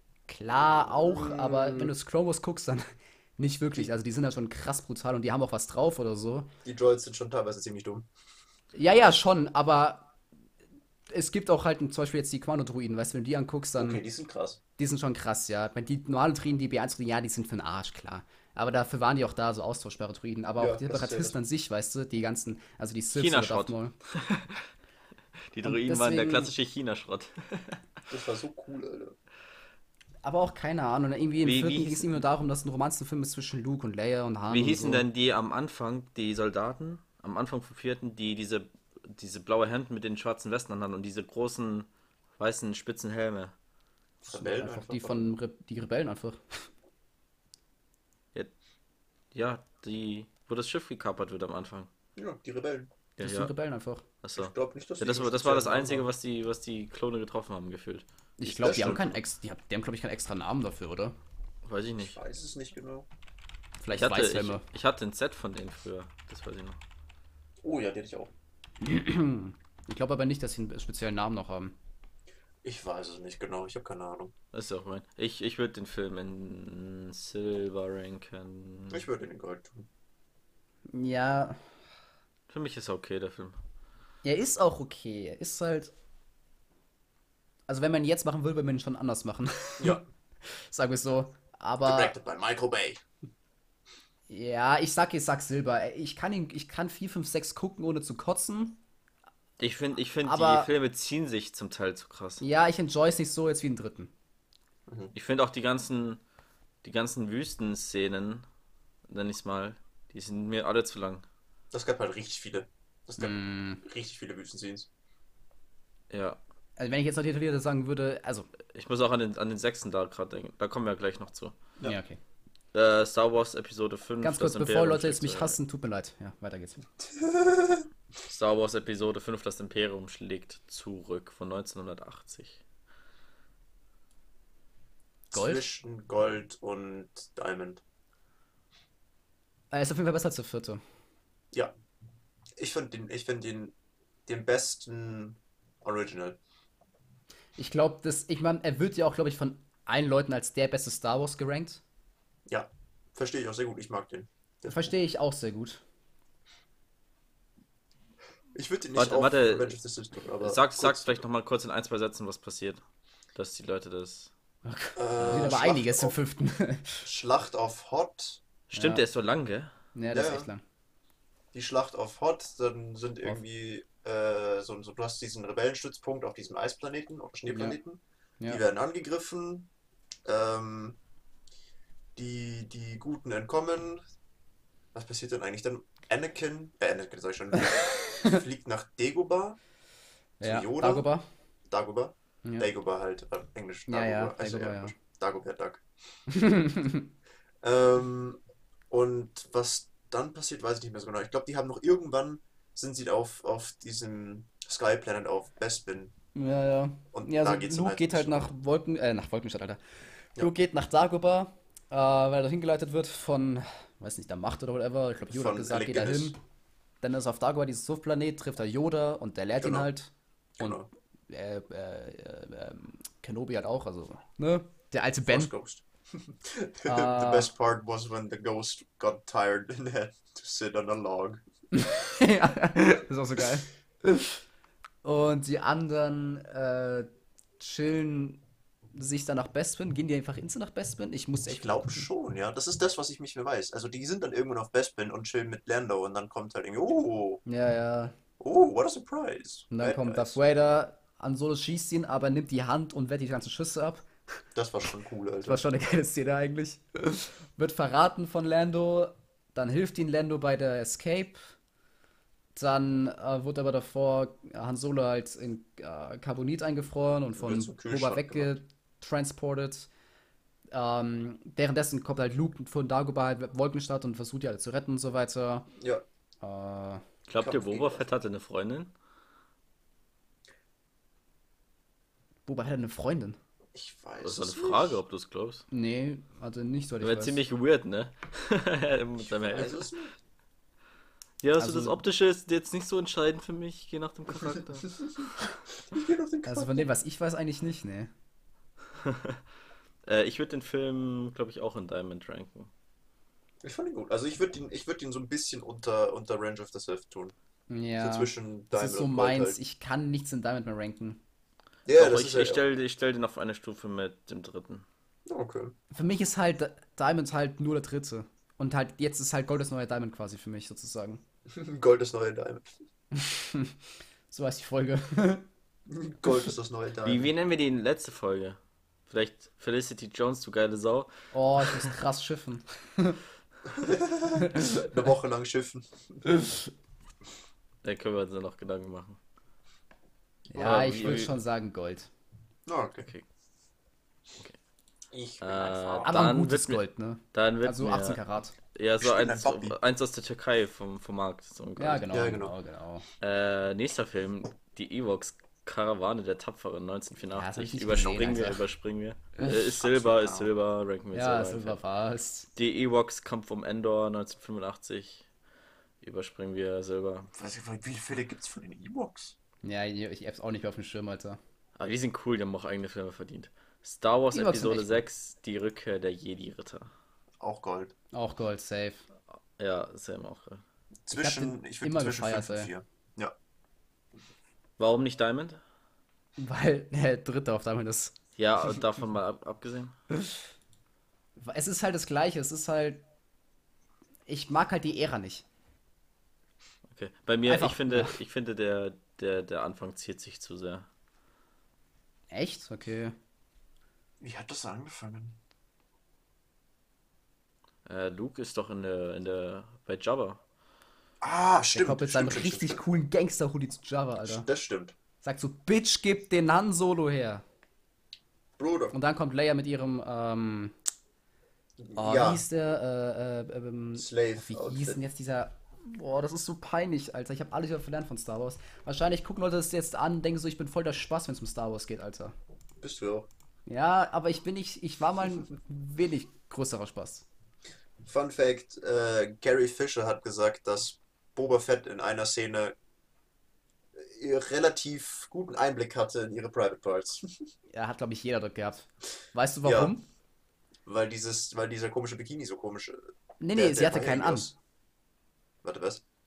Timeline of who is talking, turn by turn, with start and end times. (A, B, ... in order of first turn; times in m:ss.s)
0:00.3-0:02.8 A
0:00.7-0:01.9 B
0:03.4-0:06.5 A
0:06.6-0:08.1 B
0:08.8-0:10.1 A
0:11.1-0:14.0 A
0:13.8-0:14.6 B
0:14.8-0:23.9 A
0:20.6-0:21.4 B
0:23.1-0:24.7 C
0:25.5-0:27.8 C
0:25.6-0:26.5 A
0:28.1-0:29.2 B
0:30.2-0:35.0 A
0:31.4-0:32.3 C
0:34.5-0:43.5 C
0:44.3-0:46.7 A
0:44.3-0:45.3 B
0:49.3-0:51.9 C
0:52.2-0:52.9 B
0:53.2-0:53.5 C
0:53.2-0:54.0 A
0:54.2-0:59.1 C
0:54.4-0:56.1 B
0:58.4-1:01.2 A
0:58.6-0:59.2 B
1:01.6-1:02.2 C
1:02.0-1:03.1 B
1:03.8-1:04.6 A
1:04.0-1:06.8 C
1:07.6-1:08.3 B
1:08.8-1:11.8 A
1:12.6-1:14.3 B
1:14.5-1:19.0 C
1:18.9-1:19.9 B
1:20.9-1:21.6 A
1:22.5-1:23.6 C
1:24.2-1:25.9 A
1:27.7-1:32.1 A
1:29.8-1:30.0 B
1:31.8-1:33.0 B
1:34.3-1:38.8 A
1:39.6-1:42.4 C
1:40.2-1:40.7 A
1:42.4-1:44.1 A
1:44.9-1:45.1 B
1:45.1-1:46.2 C
1:46.8-1:48.4 C
1:49.1-1:51.2 C
1:51.7-1:54.9 B
1:53.2-1:53.8 A
1:56.1-1:56.4 C
1:56.8-1:58.5 A
1:58.7-2:01.6 C
2:01.8-2:02.2 A
2:02.7-2:05.6 C
2:04.2-2:06.8 A
2:07.0-2:07.9 B
2:08.3-2:12.6 C
2:15.3-2:17.8 B
2:15.3-2:15.6 A
2:19.7-2:20.8 A
2:22.6-2:23.8 B
2:24.3-2:26.4 B
2:27.6-2:31.8 A
2:32.5-2:34.9 B
2:34.6-2:35.8 A
2:38.6-2:41.2 B
2:39.0-2:39.8 C
2:40.4-2:42.8 C
2:43.4-2:44.3 C
2:44.6-2:47.1 A
2:45.0-2:46.2 B
2:45.2-2:45.6 C
2:47.0-2:48.4 B
2:48.7-2:49.7 C
2:48.7-2:49.0 A
2:50.0-2:50.6 A
2:50.1-2:50.5 B
2:51.5-2:59.7 B
2:57.5-2:57.8 A
3:00.2-3:01.0 B
3:02.2-3:04.0 B
3:04.9-3:09.6 B
3:07.9-3:08.4 A
3:10.4-3:11.2 A
3:10.4-3:11.1 B
3:11.7-3:15.8 B
3:13.9-3:14.9 A
3:16.3-3:17.1 A
3:17.6-3:26.1 B
3:26.4-3:36.4 A
3:27.1-3:28.5 B
3:35.3-3:36.4 B
3:37.0-3:45.5 A
3:39.6-3:39.9 B
3:40.6-3:40.9 B
3:45.3-3:51.4 B
3:46.9-3:47.5 A
3:51.7-3:54.4 A
3:55.0-3:58.4 A
3:58.9-4:02.1 A
4:01.5-4:07.4 B
4:07.5-4:08.1 A
4:08.4-4:10.4 B
4:09.7-4:14.1 A
4:14.6-4:15.6 B
4:15.4-4:21.4 A
4:22.6-4:29.9 A
4:27.4-4:28.6 B
4:30.7-4:35.7 A
4:35.8-4:36.0 B
4:36.4-4:37.0 A
4:37.3-4:38.9 C
4:37.4-4:38.1 B
4:42.5-4:43.4 A
4:43.8-4:45.0 B
4:44.2-4:45.6 C
4:45.7-4:47.4 A
4:47.0-4:49.9 C
4:49.2-4:50.2 B
4:51.4-4:55.0 C
4:51.6-4:52.0 A
4:55.9-4:56.9 B
4:56.4-4:58.1 A
4:59.0-4:59.4 C
5:00.1-5:02.7 C
5:03.6-5:07.4 B
5:07.7-5:11.2 A
5:08.0-5:09.6 B
5:11.9-5:12.6 B
5:11.9-5:14.8 C
5:15.3-5:15.8 B
5:15.9-5:21.2 A
5:21.5-5:22.7 B
5:23.2-5:23.8 A
5:24.3-5:25.4 A
5:25.9-5:27.3 B
5:27.0-5:31.1 C
5:31.3-5:33.2 A
5:33.7-5:36.2 B
5:34.4-5:34.9 A
5:37.8-5:39.2 C
5:40.5-5:42.1 A
5:40.6-5:41.4 C
5:40.9-5:41.2 B
5:42.7-5:43.1 B
5:45.1-5:46.3 B
5:45.4-5:46.8 C
5:46.0-5:48.5 A
5:47.3-5:48.2 C
5:48.7-5:52.2 C
5:49.0-5:49.8 B
5:51.8-5:53.0 A
5:52.1-5:52.5 B
5:53.2-6:01.8 C
5:57.3-5:58.6 A
5:57.8-5:58.5 B
5:59.5-6:00.5 B
6:01.1-6:02.5 A
6:02.6-6:05.2 C
6:06.0-6:07.3 C
6:07.4-6:09.4 B
6:09.6-6:11.4 A
6:11.8-6:16.9 C
6:14.3-6:15.0 A
6:17.4-6:17.9 B
6:18.1-6:19.0 A
6:19.6-6:20.6 C
6:21.1-6:23.3 B
6:21.1-6:22.7 A
6:24.8-6:25.6 C
6:26.4-6:28.2 A
6:28.4-6:30.0 C
6:31.4-6:33.0 A
6:34.3-6:35.4 A
6:36.9-6:40.9 C
6:37.5-6:38.2 A
6:42.3-6:43.2 A
6:44.2-6:45.4 B
6:47.9-6:50.4 C
6:51.2-6:52.8 B
6:51.8-6:54.5 A
6:54.3-6:55.0 B
6:55.2-6:57.4 A
6:58.6-6:59.0 B
6:58.9-7:00.8 A
7:01.8-7:02.4 B
7:02.0-7:12.3 A
7:04.0-7:05.0 B
7:12.8-7:13.3 B
7:13.7-7:17.3 A
7:18.0-7:22.8 B
7:24.0-7:27.3 B
7:27.7-7:30.0 A
7:29.6-7:29.9 B
7:30.9-7:34.6 B
7:33.4-7:34.5 A
7:35.6-7:36.0 B